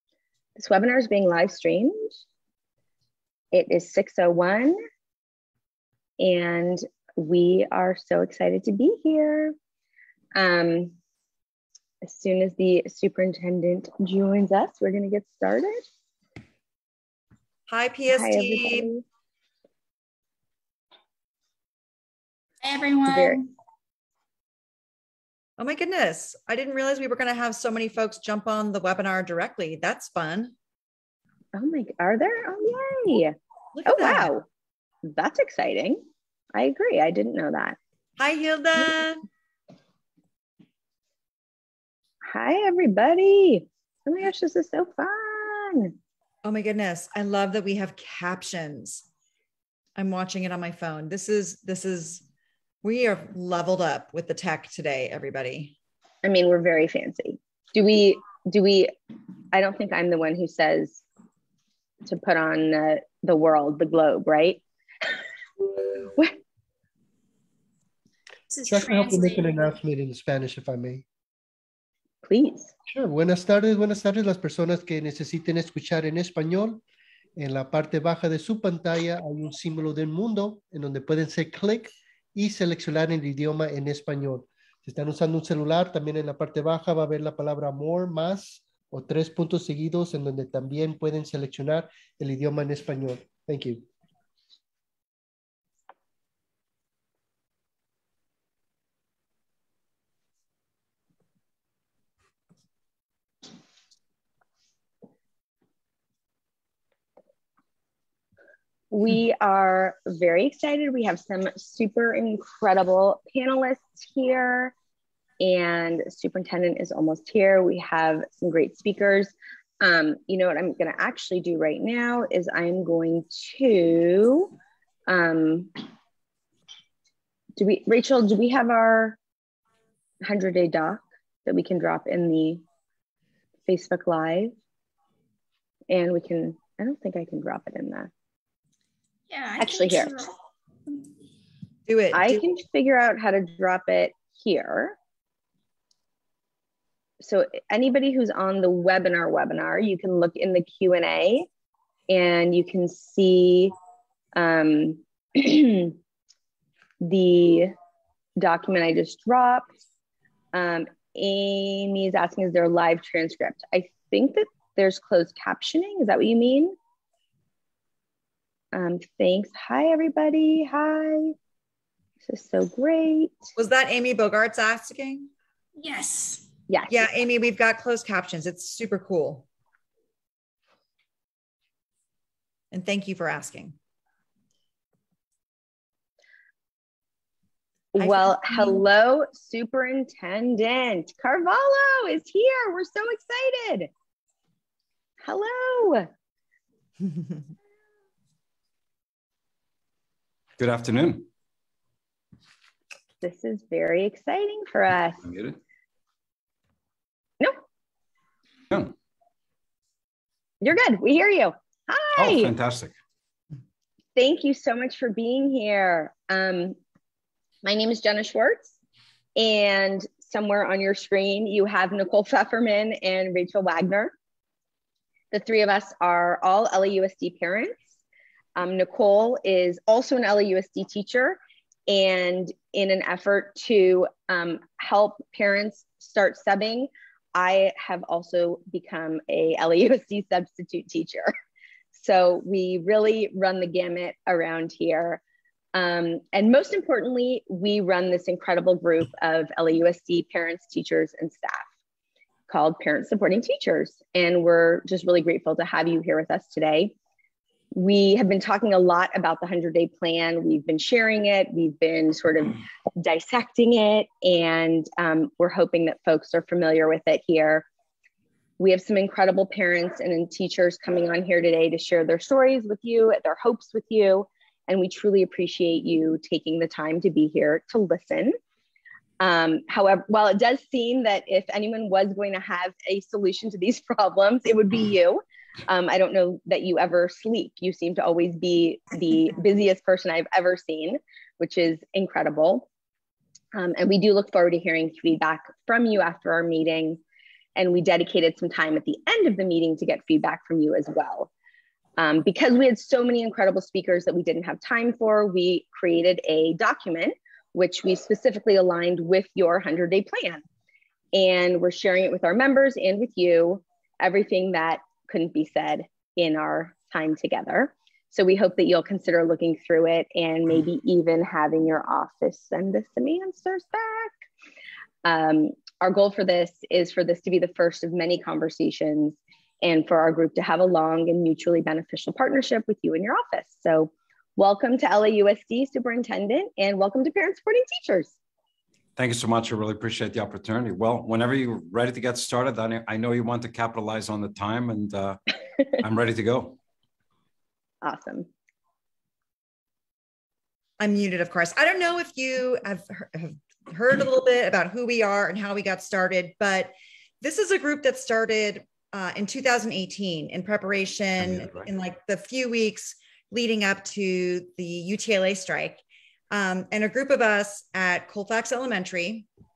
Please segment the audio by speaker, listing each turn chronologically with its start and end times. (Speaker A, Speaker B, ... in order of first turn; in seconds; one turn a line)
Speaker A: 0.6-2.2
Speaker A: 3.5-4.8
Speaker A: 6.2-9.6
Speaker A: 10.3-10.9
Speaker A: 12.0-15.8
Speaker B: 17.7-18.9
Speaker A: 18.1-19.0
Speaker C: 22.6-23.5
Speaker A: 23.1-23.4
Speaker B: 25.6-30.5
Speaker A: 31.5-33.3
Speaker B: 33.7-34.3
Speaker A: 33.9-34.5
Speaker A: 35.0-37.8
Speaker B: 38.2-39.2
Speaker A: 42.2-45.9
Speaker B: 46.4-49.0
Speaker B: 50.0-52.2
Speaker B: 52.8-55.7
Speaker A: 56.2-58.9
Speaker A: 59.5-61.0
Speaker A: 62.0-64.6
Speaker A: 66.0-66.3
Speaker C: 68.5-69.8
Speaker D: 68.7-71.0
Speaker A: 72.2-72.7
Speaker D: 72.9-76.8
Speaker D: 77.4-93.8
Speaker A: 108.9-114.7
Speaker A: 115.4-124.5
Speaker A: 125.1-125.8
Speaker A: 127.6-129.2
Speaker A: 130.2-132.6
Speaker A: 133.7-134.5
Speaker A: 135.9-138.1
Speaker C: 139.3-140.3
Speaker A: 139.6-140.1
Speaker B: 141.9-142.5
Speaker A: 142.1-145.0
Speaker A: 147.2-151.5
Speaker A: 152.1-153.7
Speaker A: 154.3-156.0
Speaker A: 157.0-157.7
Speaker A: 158.4-159.7
Speaker A: 160.5-166.8
Speaker A: 168.7-171.3
Speaker A: 172.2-173.3
Speaker B: 173.6-175.3
Speaker C: 175.8-176.5
Speaker A: 176.7-177.1
Speaker B: 176.9-179.4
Speaker B: 182.7-183.8
Speaker A: 187.9-193.9
Speaker B: 188.0-188.8
Speaker A: 195.2-196.1
Speaker E: 200.6-201.3
Speaker A: 203.2-205.3
Speaker E: 205.2-205.6
Speaker A: 210.6-212.5
Speaker E: 212.2-212.9
Speaker A: 214.2-216.8
Speaker A: 217.6-218.8
Speaker A: 219.3-224.1
Speaker A: 225.3-227.8
Speaker A: 228.6-241.3
Speaker A: 241.9-245.2
Speaker A: 245.7-251.7
Speaker A: 252.5-256.9
Speaker A: 257.7-267.7
Speaker A: 268.6-278.4
Speaker A: 279.2-292.7
Speaker A: 293.5-297.0
Speaker A: 297.6-301.3
Speaker A: 302.0-310.4
Speaker A: 311.1-324.1
Speaker A: 325.0-338.1
Speaker E: 338.9-345.2
Speaker E: 345.8-346.6
Speaker A: 347.8-348.3
Speaker B: 350.8-369.3
Speaker E: 361.2-361.7